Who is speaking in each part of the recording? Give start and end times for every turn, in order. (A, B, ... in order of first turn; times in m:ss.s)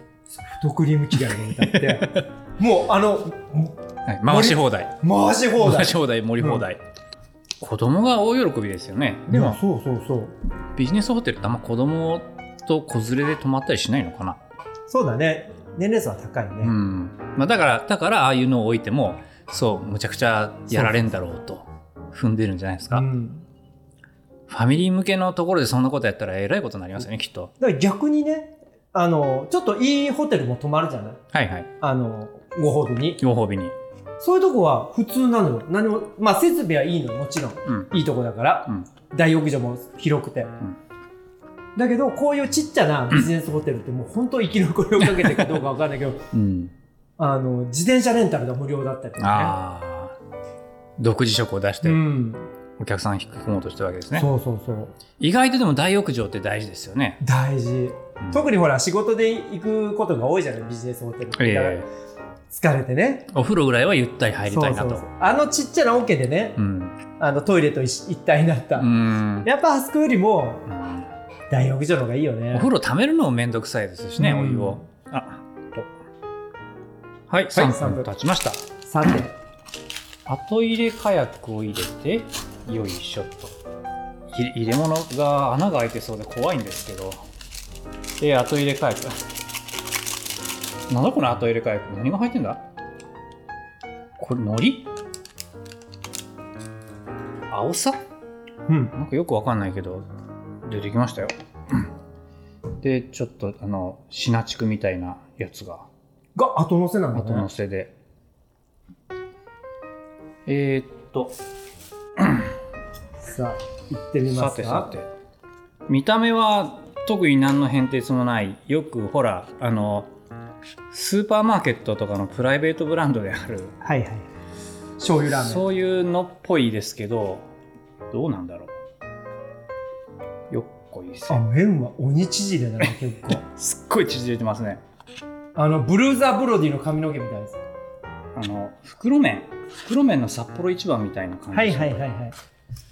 0:00.3-0:06.6 A
0:01.2-0:02.1 B
0:04.0-0:04.9 B
0:05.6-0:06.8 B
0:07.6-0:09.6 B
0:09.3-0:10.3 A
0:10.7-0:14.4 B
0:14.9-0:16.7 A
0:16.6-0:23.1 B
0:22.9-0:23.4 A
0:24.5-0:27.5 B
0:27.6-0:31.2 A
0:31.3-0:31.7 B
0:31.8-0:33.2 A
0:33.2-0:33.7 B
0:34.2-0:40.5 A
0:37.6-0:38.0 B
0:41.8-0:46.3 A
0:45.0-0:45.6 B
0:46.3-0:46.7 B
0:47.2-0:49.6 A
0:49.2-0:50.1 B
0:51.0-0:52.0 B
0:51.8-0:52.5 A
0:52.8-0:54.3 B
0:54.1-0:54.9 A
0:55.2-0:57.2 B
0:57.2-1:01.8 A
1:01.4-1:01.9 B
1:02.5-1:03.3 A
1:03.3-1:05.1 B
1:04.5-1:06.6 A
1:06.6-1:06.9 B
1:07.2-1:08.9 A
1:08.8-1:09.5 B
1:09.4-1:10.7 A
1:10.7-1:11.1 B
1:11.5-1:12.7 A
1:12.5-1:15.9 B
1:14.2-1:14.8 A
1:17.3-1:18.6 B
1:17.5-1:18.1 A
1:18.8-1:19.3 A
1:20.2-1:23.5 B
1:24.3-1:27.2 B
1:28.2-1:29.1 B
1:30.9-1:32.6 B
1:34.2-1:34.9 B
1:37.5-1:38.0 B
1:38.7-1:38.9 A
1:38.9-1:40.1 B
1:40.6-1:41.9 B
1:42.8-1:45.9 B
1:46.4-1:47.5 A
1:47.1-1:47.9 B
1:50.4-1:51.4 B
1:52.2-1:52.5 B
1:53.2-1:54.9 A
1:54.3-1:55.1 B
1:55.9-2:00.1 B
2:00.9-2:03.7 B
2:03.8-2:04.3 A
2:05.0-2:05.6 A
2:05.3-2:07.5 B
2:08.1-2:08.7 B
2:10.5-2:11.4 B
2:11.3-2:13.4 A
2:12.8-2:14.8 B
2:15.6-2:17.6 A
2:18.3-2:22.0 B
2:21.5-2:22.4 A